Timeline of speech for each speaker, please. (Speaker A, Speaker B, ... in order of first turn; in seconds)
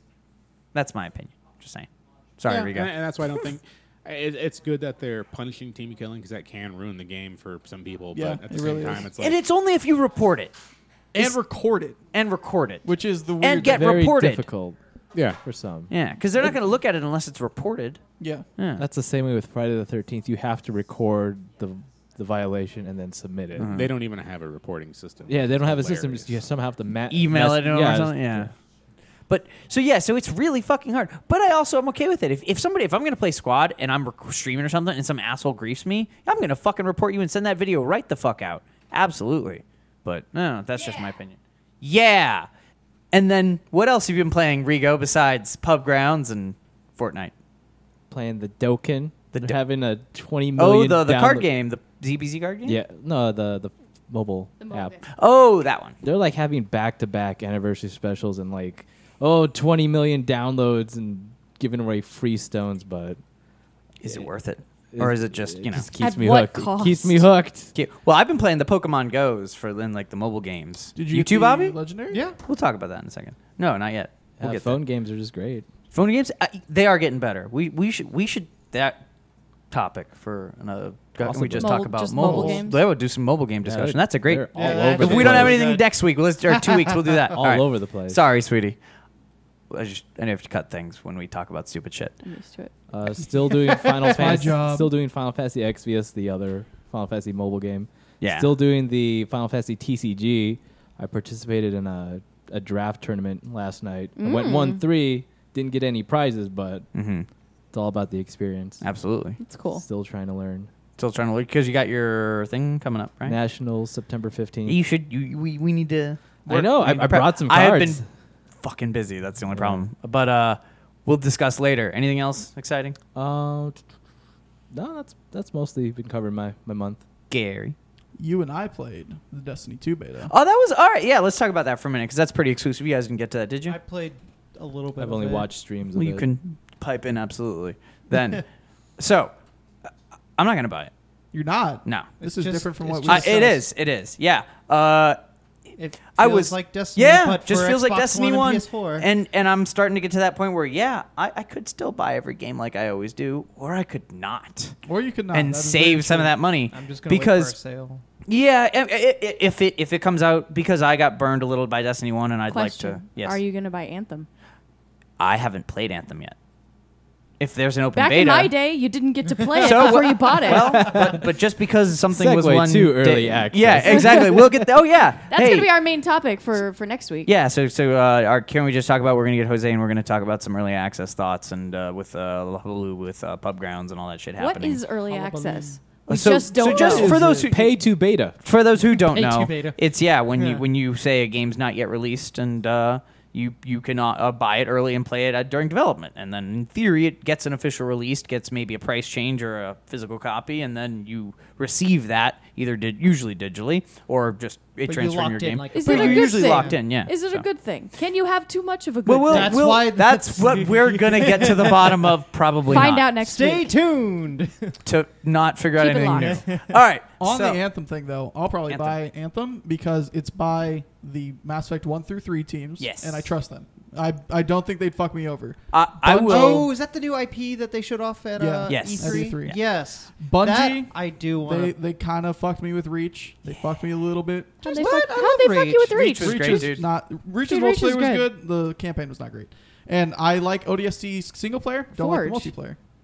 Speaker A: 0.7-2.9, 9.1-10.5, 12.1-12.9, 13.4-14.4, 15.9-18.0, 18.6-18.8, 23.6-23.9, 27.1-28.5, 29.3-42.5, 43.1-47.3, 49.3-49.6, 50.6-52.8, 55.1-56.0, 64.0-65.9, 67.7-71.8, 72.4-74.8, 75.9-79.0, 79.7-88.8, 89.7-92.2, 98.2-98.5, 106.9-107.3, 108.8-109.4, 111.0-113.4, 114.7-118.0, 118.6-123.0, 127.3-127.8, 130.3-133.8, 135.9-138.4, 139.0-139.3, 140.4-140.9, 143.0-145.2, 146.1-154.8, 155.3-157.6, 158.2-163.4, 165.2-166.3, 167.4-168.5, 169.6-175.7, 177.2-184.8, 186.1-187.8, 188.4-207.4, 209.0-213.1, 214.8-217.6, 218.7-218.9, 222.8-223.3, 225.7-226.7, 228.7-229.6, 235.9-236.8
Speaker B: 2.6-9.4, 15.1-15.4, 23.6-26.6
Speaker C: 8.1-9.1, 11.1-12.0, 12.8-13.9, 18.2-18.5, 71.0-72.2, 94.1-94.9, 128.2-130.3, 141.3-143.6, 154.8-156.3, 217.2-226.7, 228.3-229.6, 230.2-234.6, 236.2-242.8
Speaker D: 13.6-14.8, 15.4-15.9, 18.8-23.7, 25.3-28.5, 48.1-51.5, 52.6-55.0, 56.0-63.2, 64.9-67.7, 74.4-75.7, 81.2-81.6, 83.6-85.8, 87.4-88.2, 92.9-106.9, 107.7-108.8, 109.7-110.7, 113.2-114.8, 116.5-118.0, 119.5-119.8, 123.1-123.8, 124.7-127.0, 135.0-136.3, 170.5-171.2, 172.1-174.4, 186.7-188.3
Speaker E: 54.6-55.0, 66.0-67.2, 81.5-82.8, 92.2-92.7, 104.2-104.8, 109.4-109.8, 162.5-164.3, 167.9-171.0, 173.9-174.4, 175.3-177.3, 184.4-187.2, 205.7-209.6, 212.7-213.7, 215.8-216.4, 234.6-236.7, 237.5-238.2, 241.9-242.5
Speaker F: 72.1-72.4, 82.2-82.6, 84.5-85.9, 86.5-87.0, 93.5-94.5, 133.7-135.5, 142.2-143.6, 145.8-149.1, 156.7-158.0, 169.4-169.9, 185.1-185.8, 188.9-189.8, 190.3-190.6, 204.8-206.8, 209.3-212.1, 213.2-214.7, 216.2-216.8, 226.2-231.7, 234.6-236.0